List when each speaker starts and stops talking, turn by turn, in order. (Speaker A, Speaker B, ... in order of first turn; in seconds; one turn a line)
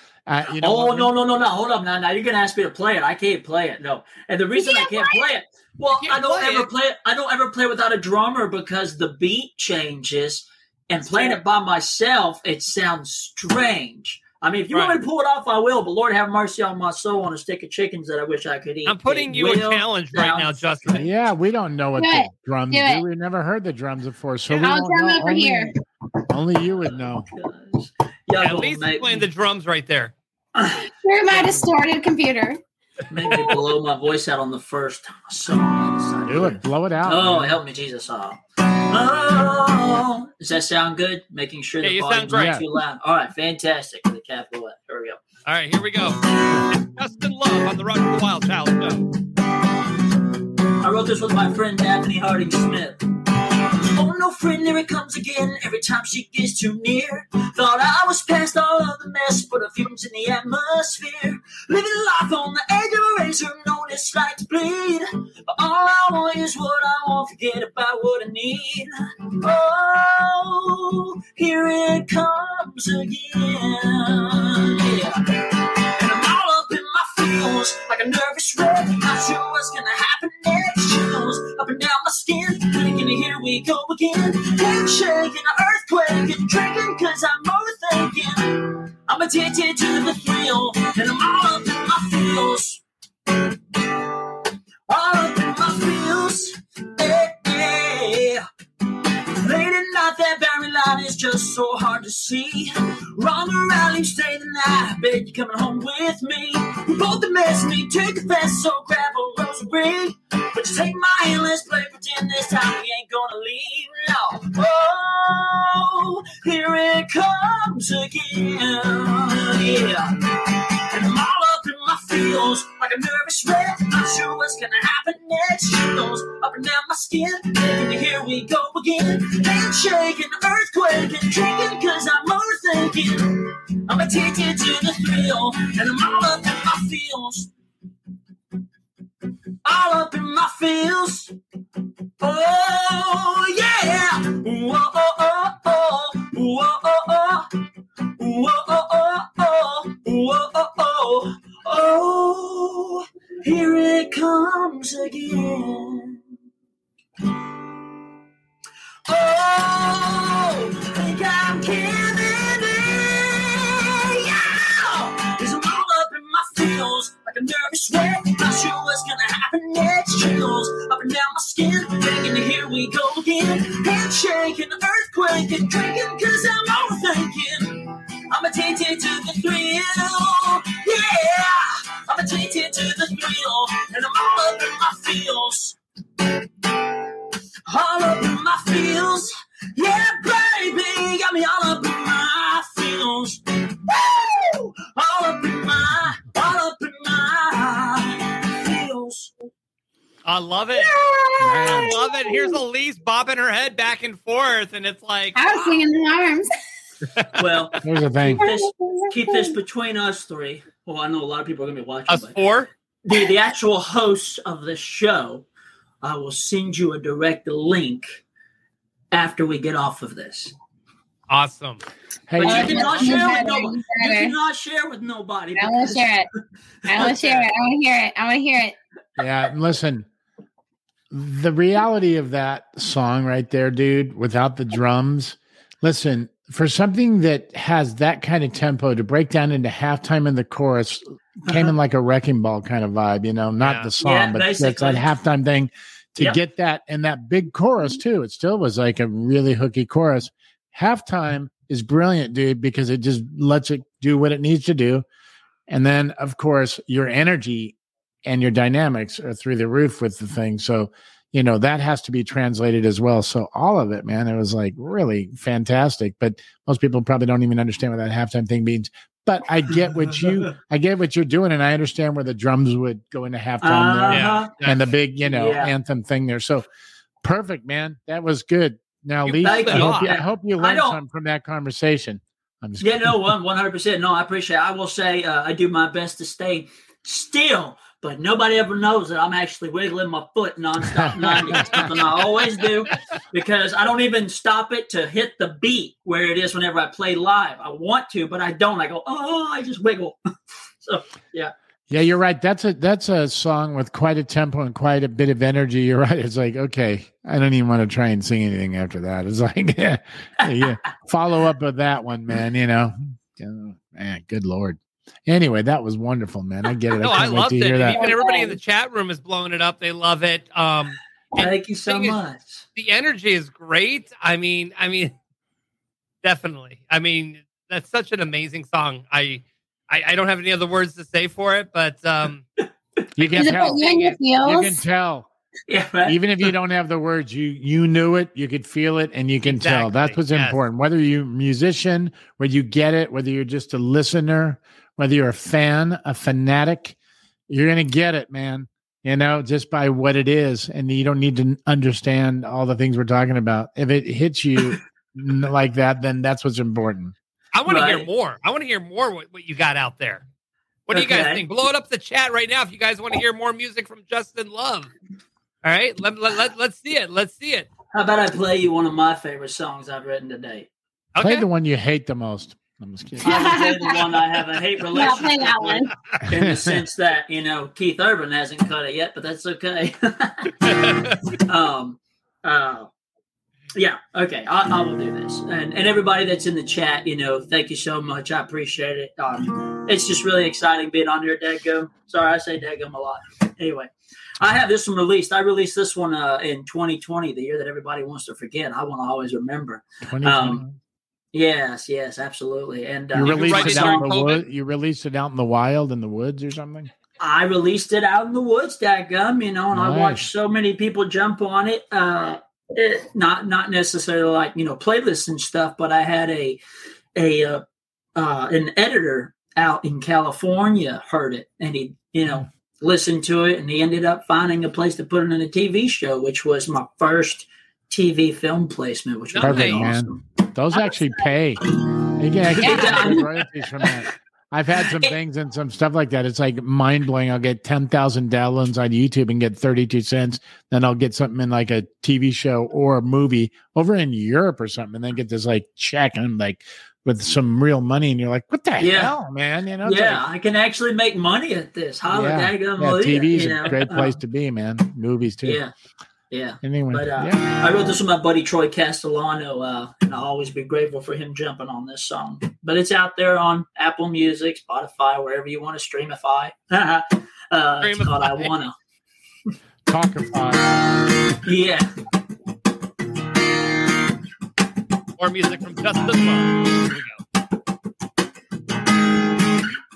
Speaker A: 0.3-1.1
Speaker B: 0.6-21.1
Speaker C: 4.6-5.2
Speaker D: 5.9-6.7
Speaker D: 14.7-15.0
Speaker D: 18.9-21.1
Speaker A: 20.9-25.7
Speaker C: 22.0-23.0
Speaker C: 24.6-25.7
Speaker A: 26.3-27.3
Speaker B: 27.3-29.2
Speaker D: 28.4-30.1
Speaker B: 30.5-31.6
Speaker C: 30.9-32.6
Speaker B: 33.1-38.4
Speaker A: 36.3-37.5
Speaker B: 38.9-45.2
Speaker D: 41.8-42.6
Speaker A: 42.3-42.6
Speaker D: 45.5-49.0
Speaker B: 50.8-53.0
Speaker B: 53.9-75.3
Speaker B: 76.0-92.8
Speaker B: 94.9-98.4
Speaker B: 99.4-120.2
Speaker B: 120.9-137.5
Speaker B: 139.6-141.3
Speaker B: 142.2-147.5
Speaker B: 148.2-156.2
Speaker B: 159.1-185.8
Speaker B: 187.7-199.3
Speaker D: 200.2-200.9
Speaker C: 200.8-202.6
Speaker A: 201.4-202.0
Speaker D: 201.6-205.8
Speaker C: 205.3-206.5
Speaker B: 207.4-212.4
Speaker A: 207.8-208.4
Speaker C: 208.4-209.5
Speaker D: 212.1-212.7
Speaker B: 213.1-215.5
Speaker B: 216.0-218.2
Speaker B: 219.1-220.5
Speaker D: 221.3-221.8
Speaker A: 222.3-223.4
Speaker B: 222.4-226.2
Speaker C: 222.4-224.3
Speaker C: 225.6-226.3
Speaker C: 226.8-228.8
Speaker B: 226.9-227.5
Speaker A: 229.2-230.1
Speaker A: 231.1-255.0
Speaker D: 243.6-243.9
Speaker B: 244.0-245.1
Speaker A: 255.7-276.6
Speaker B: 269.9-270.5
Speaker B: 273.6-274.5
Speaker D: 274.1-274.9
Speaker B: 275.2-275.7
Speaker A: 277.2-283.3
Speaker D: 279.2-280.1
Speaker B: 279.4-281.0
Speaker B: 282.8-300.2
Speaker A: 290.9-291.8
Speaker D: 291.6-291.8
Speaker B: 300.8-301.5
Speaker A: 301.9-318.1
Speaker B: 310.4-310.7
Speaker D: 317.0-322.2
Speaker C: 318.0-318.6
Speaker B: 321.3-322.6
Speaker D: 322.7-325.1
Speaker D: 326.2-332.4
Speaker A: 333.2-335.3
Speaker D: 333.2-334.1
Speaker C: 333.4-334.8
Speaker B: 335.7-336.5
Speaker A: 336.1-347.0
Speaker D: 339.5-340.6
Speaker A: 347.5-357.1
Speaker D: 357.5-360.2
Speaker B: 357.6-358.1
Speaker D: 360.9-364.9
Speaker B: 360.9-361.4
Speaker D: 365.6-367.7
Speaker B: 367.9-370.7
Speaker D: 371.1-371.5
Speaker A: 371.2-373.3
Speaker B: 373.2-380.7
Speaker C: 373.2-374.0
Speaker C: 374.9-375.9
Speaker A: 376.3-376.8
Speaker D: 380.7-381.1
Speaker B: 381.4-382.9
Speaker B: 383.8-400.6
Speaker A: 400.0-400.8
Speaker B: 401.3-404.1
Speaker A: 403.1-406.9
Speaker D: 403.2-404.4
Speaker B: 407.2-416.6
Speaker A: 409.7-410.3
Speaker B: 417.1-417.6
Speaker B: 418.1-430.2
Speaker D: 429.3-429.9
Speaker A: 429.4-431.6
Speaker A: 432.1-450.2
Speaker B: 432.5-434.0
Speaker C: 432.6-433.2
Speaker B: 434.8-435.1
Speaker B: 448.8-449.1
Speaker B: 449.8-454.2
Speaker A: 452.1-455.6
Speaker B: 455.4-455.7
Speaker B: 456.3-468.7
Speaker A: 456.6-457.6
Speaker D: 467.8-468.5
Speaker A: 469.9-470.9
Speaker B: 471.4-471.9
Speaker D: 475.2-477.2